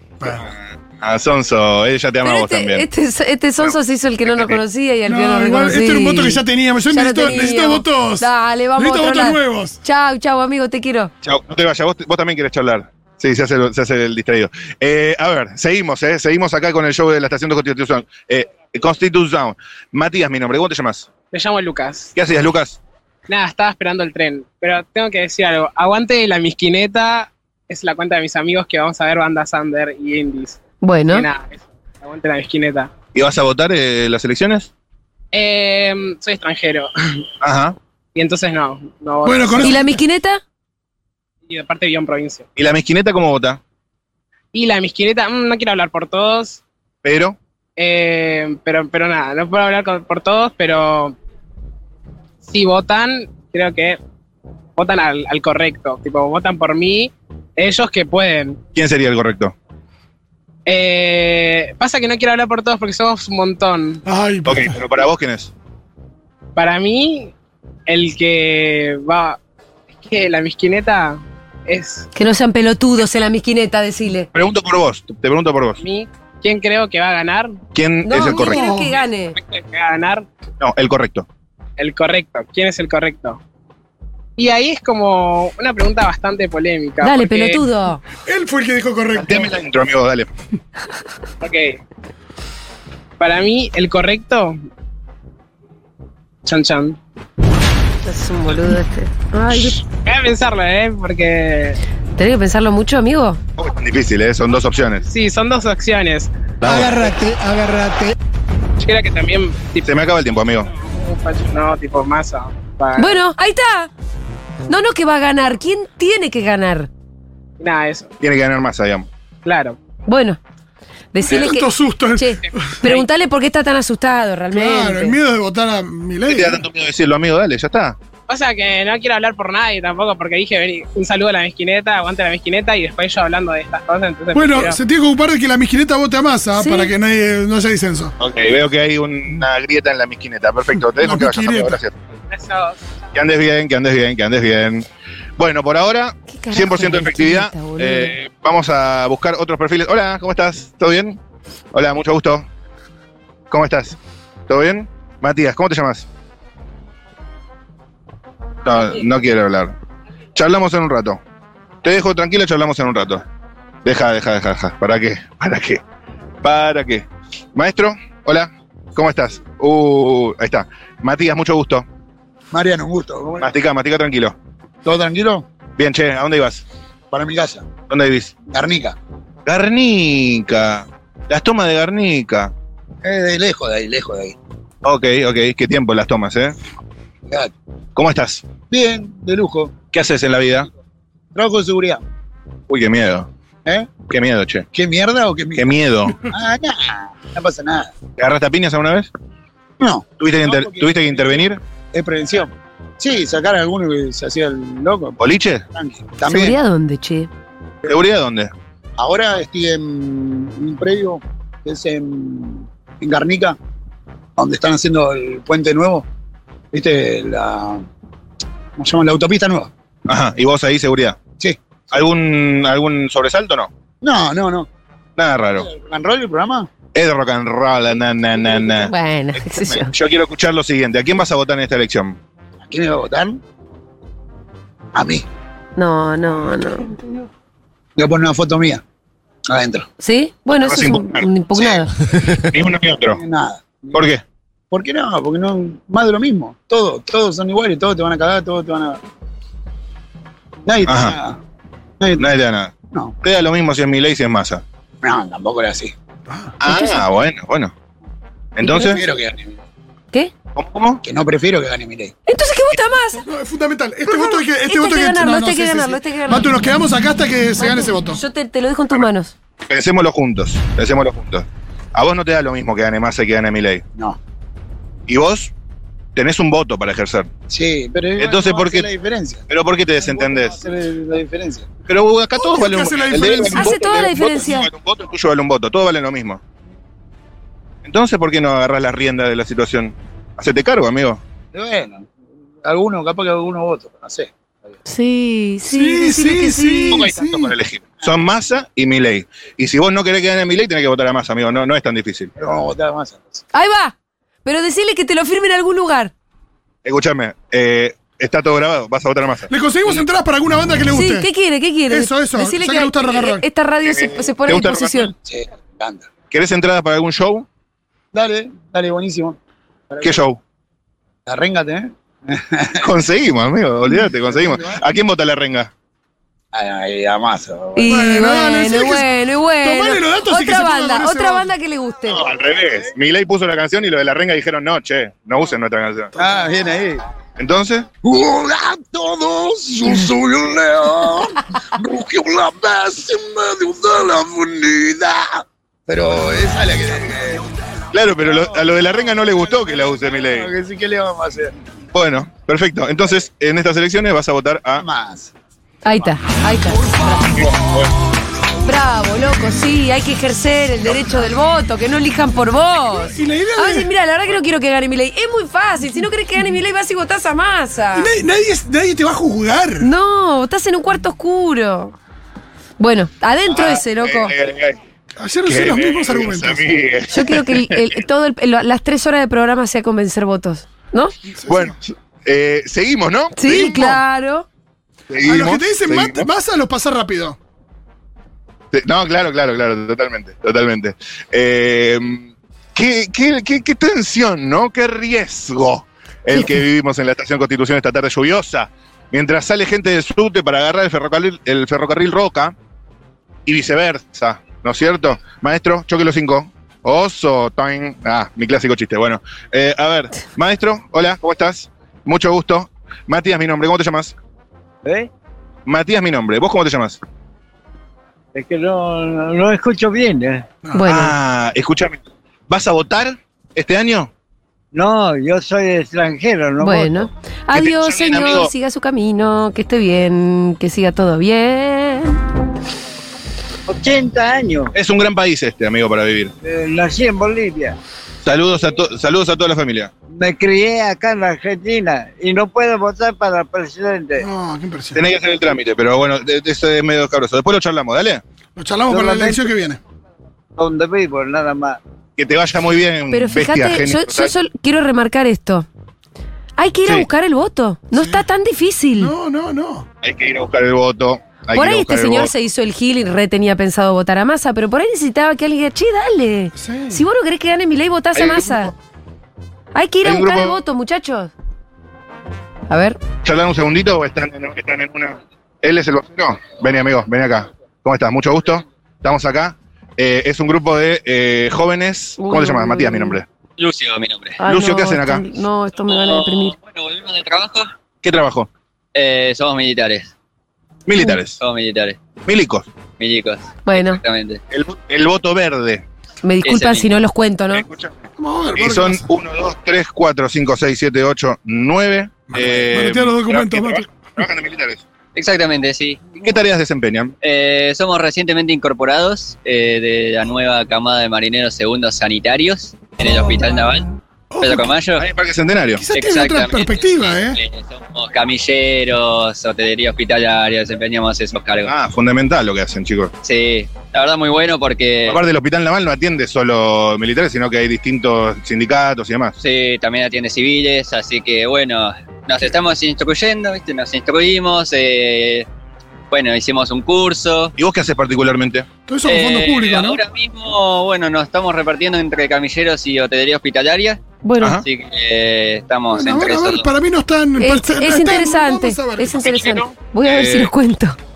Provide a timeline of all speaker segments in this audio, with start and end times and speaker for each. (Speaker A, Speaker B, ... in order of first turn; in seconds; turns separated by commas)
Speaker A: 0.2-0.5, Speaker B: 0.3-2.9, Speaker C: 2.2-11.1, Speaker B: 3.6-4.6, Speaker A: 5.1-9.8, Speaker B: 11.2-21.1, Speaker D: 21.3-22.1, Speaker B: 22.1-22.8, Speaker D: 23.3-32.9, Speaker C: 30.8-31.3, Speaker B: 33.1-34.7, Speaker D: 35.3-37.2, Speaker B: 37.4-37.8, Speaker D: 38.1-39.8, Speaker A: 39.2-40.0, Speaker C: 39.6-40.4, Speaker D: 41.5-42.5, Speaker B: 42.6-43.6, Speaker D: 44.5-46.6, Speaker B: 47.0-47.4, Speaker D: 47.8-51.2, Speaker D: 52.4-54.0, Speaker D: 54.8-58.6, Speaker B: 58.8-59.5, Speaker D: 60.7-64.0, Speaker A: 64.0-64.8, Speaker B: 64.5-65.5, Speaker D: 66.6-67.3, Speaker D: 67.9-69.4, Speaker D: 70.0-72.1, Speaker C: 72.1-74.3, Speaker B: 74.3-75.8, Speaker D: 75.8-77.6, Speaker B: 77.7-78.6, Speaker C: 78.0-79.4, Speaker A: 78.1-79.0, Speaker D: 79.4-80.3, Speaker B: 80.6-81.3, Speaker D: 81.8-83.4, Speaker D: 84.4-87.6, Speaker C: 87.0-88.0, Speaker A: 88.3-89.5, Speaker B: 89.2-90.3, Speaker D: 91.4-91.8, Speaker D: 93.2-94.6, Speaker D: 96.5-97.0, Speaker C: 98.0-99.8, Speaker D: 100.0-101.8, Speaker C: 102.2-103.4, Speaker B: 103.6-105.0, Speaker D: 105.1-106.3, Speaker B: 106.6-107.1, Speaker A: 106.7-108.1, Speaker D: 108.8-109.9, Speaker B: 109.8-110.7, Speaker D: 110.8-113.2, Speaker C: 113.0-113.9, Speaker C: 114.7-116.9, Speaker D: 117.6-118.1, Speaker B: 118.2-119.1, Speaker D: 119.5-119.8, Speaker C: 120.1-120.4, Speaker C: 121.1-125.2, Speaker A: 121.2-122.8, Speaker A: 124.5-126.6, Speaker B: 126.3-128.0, Speaker D: 128.3-134.8, Speaker A: 134.3-138.1, Speaker C: 136.6-136.9, Speaker B: 138.2-142.0, Speaker A: 141.0-141.8, Speaker D: 142.3-142.8, Speaker B: 143.1-151.2, Speaker C: 146.3-148.1, Speaker B: 151.7-152.5, Speaker B: 153.5-154.0, Speaker B: 154.5-156.1, Speaker B: 158.7-159.8, Speaker B: 160.3-161.2, Speaker B: 161.8-163.2, Speaker B: 163.8-165.8, Speaker B: 166.4-171.9, Speaker E: 172.5-173.6, Speaker B: 173.4-174.4, Speaker E: 174.8-175.5, Speaker B: 175.8-176.7, Speaker E: 177.1-177.7, Speaker B: 177.9-178.3, Speaker E: 178.4-179.0, Speaker B: 179.5-182.5, Speaker E: 183.0-184.4, Speaker B: 184.8-186.6, Speaker B: 188.0-188.5, Speaker E: 188.7-189.8, Speaker B: 189.9-190.7, Speaker E: 191.3-192.0, Speaker B: 192.7-193.3, Speaker E: 193.7-194.0, Speaker B: 194.0-194.7, Speaker E: 194.7-197.9, Speaker B: 195.6-196.3, Speaker B: 198.2-199.1, Speaker E: 199.8-205.2, Speaker B: 200.2-201.6, Speaker B: 205.2-205.7, Speaker E: 205.7-206.5, Speaker C: 206.3-207.3, Speaker B: 207.9-208.5, Speaker E: 209.0-213.6, Speaker E: 214.4-216.1, Speaker E: 216.7-217.8, Speaker E: 218.8-219.7, Speaker B: 220.1-221.2, Speaker B: 221.9-223.7, Speaker E: 224.0-224.7, Speaker B: 225.2-225.7, Speaker E: 225.6-226.7, Speaker B: 226.9-232.2, Speaker C: 228.8-229.9, Speaker E: 232.7-233.4, Speaker E: 234.9-235.2, Speaker C: 235.8-237.2, Speaker E: 238.0-238.8, Speaker E: 239.5-239.9, Speaker C: 240.0-241.9, Speaker B: 240.6-241.3, Speaker B: 242.4-243.2, Speaker E: 243.1-244.1, Speaker B: 243.9-244.2, Speaker E: 244.7-249.0, Speaker E: 250.7-251.4, Speaker B: 250.8-251.2, Speaker B: 252.2-254.6, Speaker E: 255.0-255.9, Speaker A: 256.3-256.6, Speaker B: 256.6-257.7, Speaker C: 256.7-257.0, Speaker B: 258.6-259.0, Speaker E: 258.7-259.6, Speaker B: 260.6-261.0, Speaker E: 261.0-262.1, Speaker C: 262.3-263.2, Speaker A: 263.2-268.2, Speaker C: 264.1-266.5, Speaker C: 267.6-269.3, Speaker B: 269.7-273.8, Speaker B: 275.1-275.5, Speaker B: 276.1-277.3, Speaker E: 277.5-279.4, Speaker B: 278.2-278.9, Speaker B: 279.5-280.6, Speaker E: 280.0-281.7, Speaker B: 281.9-286.4, Speaker A: 282.4-284.1, Speaker C: 283.5-284.7, Speaker B: 287.8-291.2, Speaker E: 291.5-292.1, Speaker E: 292.6-294.3, Speaker C: 294.9-297.1, Speaker A: 295.7-297.5, Speaker B: 296.9-302.3, Speaker E: 302.4-303.4, Speaker C: 303.5-306.1, Speaker B: 306.9-310.0, Speaker A: 309.5-311.3, Speaker C: 310.9-315.1, Speaker A: 311.9-313.5, Speaker B: 313.9-315.1, Speaker E: 315.2-316.1, Speaker B: 316.3-317.5, Speaker E: 318.1-319.4, Speaker E: 319.9-320.2, Speaker B: 320.0-320.4, Speaker E: 321.3-322.9, Speaker B: 322.8-325.7, Speaker E: 324.1-324.8, Speaker E: 326.5-327.9, Speaker C: 327.8-332.2, Speaker A: 327.9-329.1, Speaker A: 329.6-331.5, Speaker B: 332.1-336.1, Speaker E: 336.1-337.0, Speaker B: 337.4-337.9, Speaker E: 338.0-347.5, Speaker B: 347.9-350.5, Speaker E: 348.3-351.5, Speaker B: 351.9-354.9, Speaker E: 354.8-355.3, Speaker C: 355.8-357.4, Speaker B: 357.4-357.9, Speaker C: 358.6-368.1, Speaker A: 362.9-363.9, Speaker A: 367.9-369.9, Speaker C: 369.8-371.9, Speaker C: 372.8-374.3, Speaker B: 373.5-374.8, Speaker A: 375.2-376.6, Speaker B: 375.5-377.8, Speaker C: 377.1-381.1, Speaker A: 381.4-381.7, Speaker B: 381.5-384.0, Speaker C: 383.4-384.5, Speaker A: 383.6-384.0, Speaker B: 385.1-386.3, Speaker A: 385.2-387.4, Speaker B: 388.7-402.5, Speaker B: 403.5-414.1, Speaker B: 415.7-417.0, Speaker F: 418.3-420.5, Speaker C: 420.8-421.1, Speaker B: 420.8-424.1, Speaker F: 424.7-427.1, Speaker C: 426.6-432.2, Speaker B: 427.5-428.5, Speaker F: 433.7-434.7, Speaker B: 434.7-436.3, Speaker F: 436.4-437.8, Speaker B: 438.2-439.9, Speaker F: 440.1-444.3, Speaker A: 444.2-445.0, Speaker B: 444.9-448.2, Speaker A: 448.6-449.8, Speaker F: 448.9-449.5, Speaker F: 450.6-451.8, Speaker B: 452.2-454.3, Speaker C: 453.1-455.7, Speaker C: 456.6-459.1, Speaker A: 457.9-458.2, Speaker A: 459.0-459.9, Speaker B: 460.0-462.3, Speaker C: 461.5-468.7, Speaker A: 466.6-467.0, Speaker B: 468.1-468.7, Speaker C: 469.7-471.3, Speaker B: 470.0-470.6, Speaker C: 472.7-473.0, Speaker B: 473.2-483.2, Speaker C: 482.2-483.2, Speaker G: 483.6-484.4, Speaker C: 484.4-486.6, Speaker B: 484.4-485.2, Speaker G: 485.8-487.7, Speaker B: 488.0-488.5, Speaker G: 488.9-490.1, Speaker B: 490.9-491.4, Speaker G: 491.4-492.0, Speaker B: 492.3-492.7, Speaker G: 493.0-494.4, Speaker C: 493.7-494.0, Speaker B: 494.5-495.8, Speaker C: 496.2-497.6, Speaker G: 496.4-496.9, Speaker B: 497.5-498.0, Speaker A: 498.2-499.1, Speaker B: 498.6-504.8, Speaker A: 502.3-503.9, Speaker G: 505.1-506.1, Speaker B: 506.1-507.1, Speaker G: 507.2-513.9, Speaker A: 514.3-514.7, Speaker G: 514.4-515.1, Speaker B: 515.0-515.8, Speaker A: 515.8-517.4, Speaker G: 515.9-521.7, Speaker B: 521.6-523.1, Speaker G: 523.2-525.2, Speaker B: 525.1-529.4, Speaker G: 529.4-535.5, Speaker G: 536.1-537.5, Speaker B: 537.6-538.7, Speaker A: 538.9-540.0, Speaker G: 539.1-544.0, Speaker C: 544.2-544.6, Speaker G: 544.6-546.7, Speaker A: 545.9-549.4, Speaker C: 547.4-551.0, Speaker G: 549.4-549.7, Speaker B: 550.0-550.5